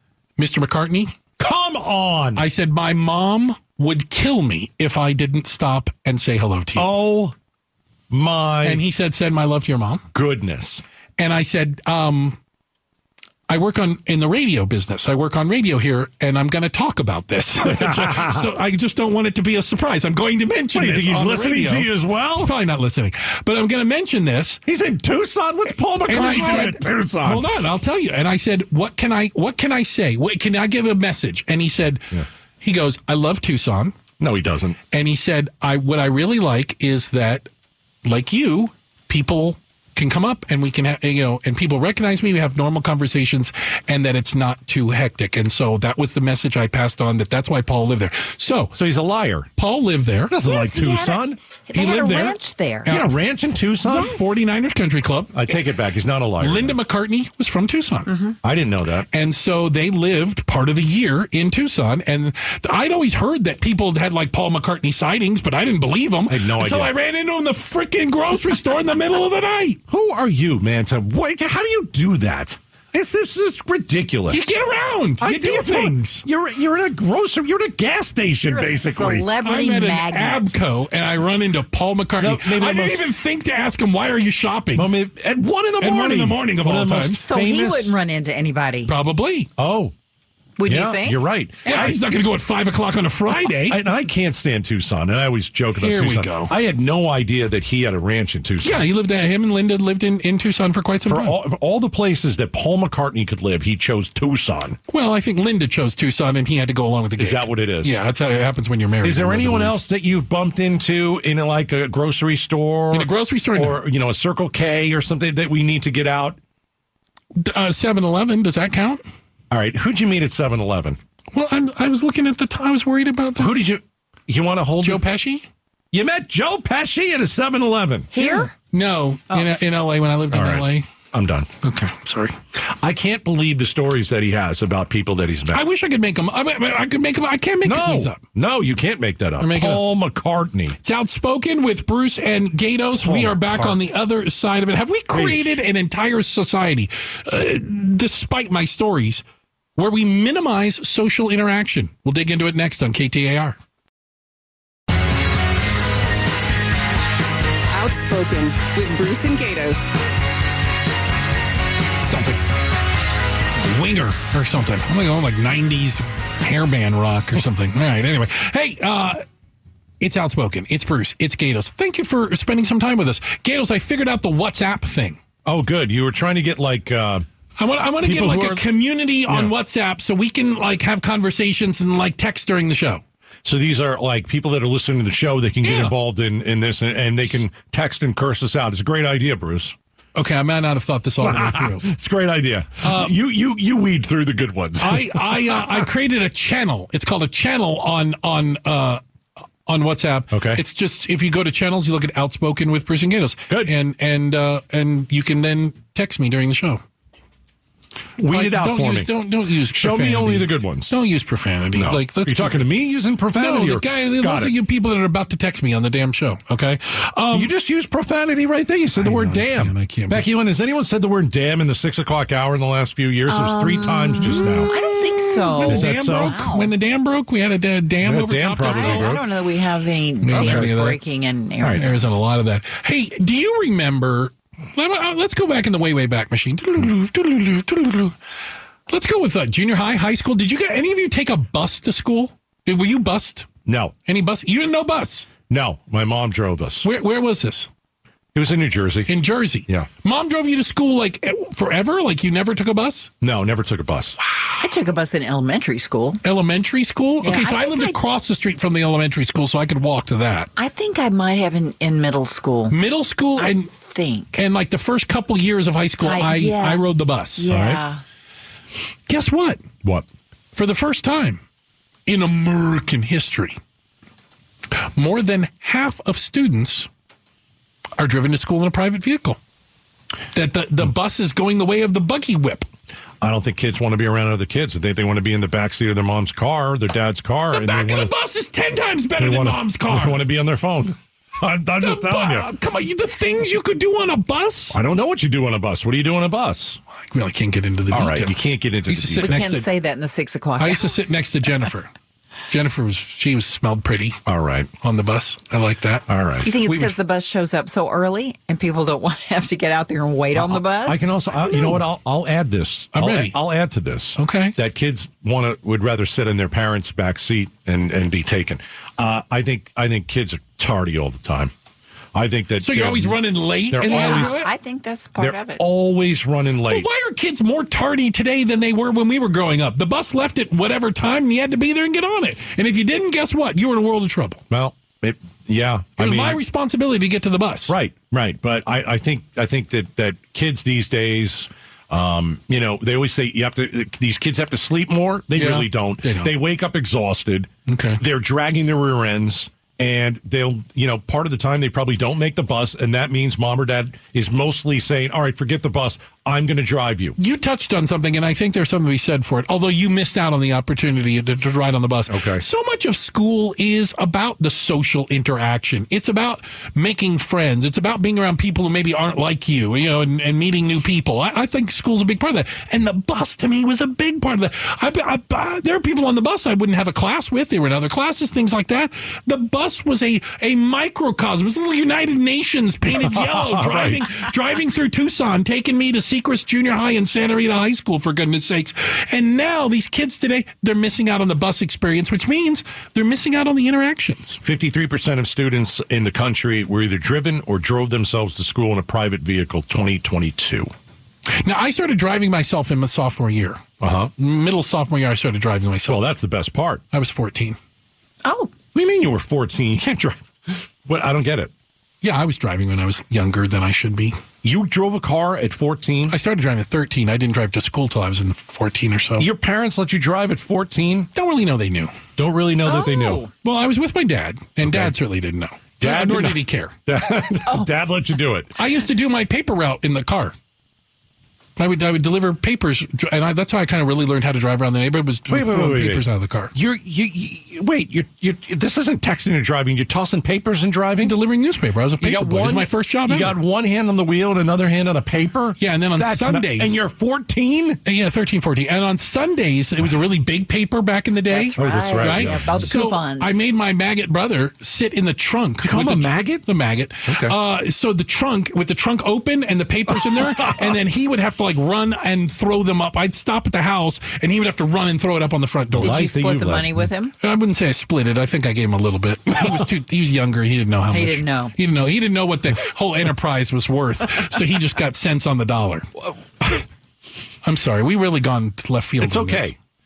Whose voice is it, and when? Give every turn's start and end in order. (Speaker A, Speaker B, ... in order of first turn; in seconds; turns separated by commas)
Speaker A: 0.4-1.2, Speaker B: 1.4-2.4, Speaker A: 2.4-6.9, Speaker B: 6.8-7.3, Speaker B: 8.1-8.8, Speaker A: 8.6-10.0, Speaker B: 10.1-10.8, Speaker A: 11.2-12.4, Speaker A: 13.5-24.6, Speaker B: 17.6-18.5, Speaker B: 20.7-22.5, Speaker B: 24.6-27.5, Speaker A: 26.1-34.0, Speaker B: 34.2-34.8, Speaker A: 34.9-37.5, Speaker A: 38.0-48.7, Speaker B: 48.7-49.5, Speaker A: 49.6-50.3, Speaker B: 50.3-51.4, Speaker C: 50.4-52.9, Speaker A: 51.7-53.1, Speaker B: 52.9-54.2, Speaker A: 53.8-55.6, Speaker B: 55.3-56.8, Speaker A: 56.4-58.2, Speaker B: 58.4-59.1, Speaker A: 59.1-69.8, Speaker B: 66.3-66.9, Speaker B: 69.9-74.5, Speaker A: 74.3-76.2, Speaker B: 75.2-79.3, Speaker C: 78.5-80.5, Speaker A: 79.4-84.9, Speaker B: 82.2-83.0, Speaker B: 84.7-87.9, Speaker A: 85.8-87.2, Speaker C: 87.2-88.9, Speaker A: 88.8-89.5, Speaker B: 89.6-89.9, Speaker C: 90.6-91.2, Speaker B: 90.7-92.0, Speaker A: 91.6-93.8, Speaker B: 93.6-98.8, Speaker A: 95.8-96.5, Speaker A: 98.6-101.4, Speaker B: 101.0-104.8, Speaker A: 104.9-109.8, Speaker B: 107.2-108.0, Speaker B: 109.0-116.4, Speaker A: 112.9-113.8, Speaker A: 117.3-119.0, Speaker B: 119.5-121.0, Speaker A: 121.3-123.6, Speaker B: 123.4-125.0, Speaker A: 124.8-125.5, Speaker B: 125.9-128.1, Speaker C: 128.1-128.5, Speaker A: 128.2-130.9, Speaker B: 130.3-131.5, Speaker A: 131.6-132.4, Speaker B: 132.6-135.7, Speaker A: 135.5-138.2, Speaker B: 137.6-140.8, Speaker A: 139.4-139.8, Speaker A: 140.8-149.2, Speaker B: 142.9-143.8, Speaker B: 145.1-145.6, Speaker A: 149.8-153.6, Speaker D: 157.7-159.9, Speaker A: 162.0-162.4, Speaker A: 163.6-169.2, Speaker A: 170.0-175.2, Speaker B: 175.4-177.3, Speaker A: 177.6-183.0, Speaker B: 178.0-178.7, Speaker B: 183.4-189.8, Speaker A: 185.6-185.9, Speaker A: 190.1-191.9, Speaker B: 191.2-195.8, Speaker A: 192.8-193.1, Speaker A: 194.8-199.0, Speaker A: 199.7-206.8, Speaker B: 200.3-200.6, Speaker B: 208.2-209.1, Speaker A: 208.3-212.7, Speaker B: 209.7-210.9, Speaker B: 211.7-214.5, Speaker A: 213.3-217.5, Speaker B: 217.3-224.7, Speaker A: 219.0-220.2, Speaker C: 223.3-226.7, Speaker A: 224.4-229.2, Speaker B: 225.7-226.4, Speaker B: 228.0-229.2, Speaker C: 228.6-232.0, Speaker A: 230.2-231.0, Speaker B: 230.3-230.7, Speaker B: 231.6-231.9, Speaker A: 231.7-238.2, Speaker A: 238.9-243.5, Speaker B: 243.7-243.9, Speaker A: 244.1-245.3, Speaker B: 245.5-246.9, Speaker A: 246.8-247.7, Speaker B: 248.3-249.1, Speaker A: 249.1-253.1, Speaker B: 253.2-254.2, Speaker C: 254.6-256.2, Speaker A: 256.2-260.5, Speaker C: 257.2-258.0, Speaker C: 260.6-262.8, Speaker A: 262.7-263.7, Speaker C: 263.4-264.4, Speaker A: 264.3-267.5, Speaker C: 266.0-268.0, Speaker B: 267.5-267.8, Speaker A: 269.1-269.7, Speaker A: 270.5-271.4, Speaker A: 272.1-273.6, Speaker A: 274.7-276.9, Speaker A: 278.0-279.4, Speaker A: 280.3-282.7, Speaker B: 283.2-288.1, Speaker A: 287.5-290.2, Speaker B: 289.2-292.5, Speaker A: 291.8-294.8, Speaker B: 294.7-296.8, Speaker A: 297.0-299.7, Speaker B: 297.9-299.4, Speaker C: 299.2-300.9, Speaker A: 300.6-301.9, Speaker A: 302.5-304.2, Speaker B: 304.2-304.7, Speaker A: 304.8-306.9, Speaker B: 306.1-306.6, Speaker C: 306.4-311.8, Speaker B: 310.3-321.5, Speaker A: 312.9-313.4, Speaker A: 314.2-314.6, Speaker B: 322.1-324.4, Speaker A: 322.6-324.5, Speaker C: 323.8-325.6, Speaker B: 325.2-326.9, Speaker A: 326.7-334.4, Speaker B: 334.5-336.4, Speaker A: 336.0-337.8, Speaker B: 337.7-357.2, Speaker A: 345.3-346.3, Speaker A: 347.7-348.0, Speaker A: 357.2-394.4, Speaker B: 362.1-362.4, Speaker B: 382.9-384.1, Speaker B: 394.4-400.7, Speaker A: 401.3-403.6, Speaker B: 403.8-404.1, Speaker A: 404.2-406.1, Speaker B: 405.9-406.8, Speaker A: 406.9-407.6, Speaker C: 408.2-408.5, Speaker B: 408.7-411.5, Speaker A: 412.0-414.2, Speaker B: 414.4-416.1, Speaker A: 416.1-419.3, Speaker B: 419.2-421.1, Speaker A: 421.1-421.9, Speaker B: 422.1-423.2, Speaker C: 422.6-423.3, Speaker A: 423.4-426.8, Speaker B: 424.6-424.9, Speaker B: 425.8-428.6, Speaker A: 428.6-430.3, Speaker A: 431.6-436.5, Speaker B: 435.3-441.2, Speaker A: 441.0-443.4, Speaker B: 442.0-447.8, Speaker A: 445.6-446.8, Speaker A: 447.8-466.1, Speaker C: 451.3-453.4, Speaker B: 451.6-452.7, Speaker B: 455.6-456.4, Speaker B: 457.1-457.4, Speaker B: 460.1-460.6, Speaker B: 465.8-466.8, Speaker C: 465.8-467.1, Speaker A: 467.2-475.9, Speaker C: 470.9-471.5, Speaker A: 477.4-479.5, Speaker B: 479.0-479.6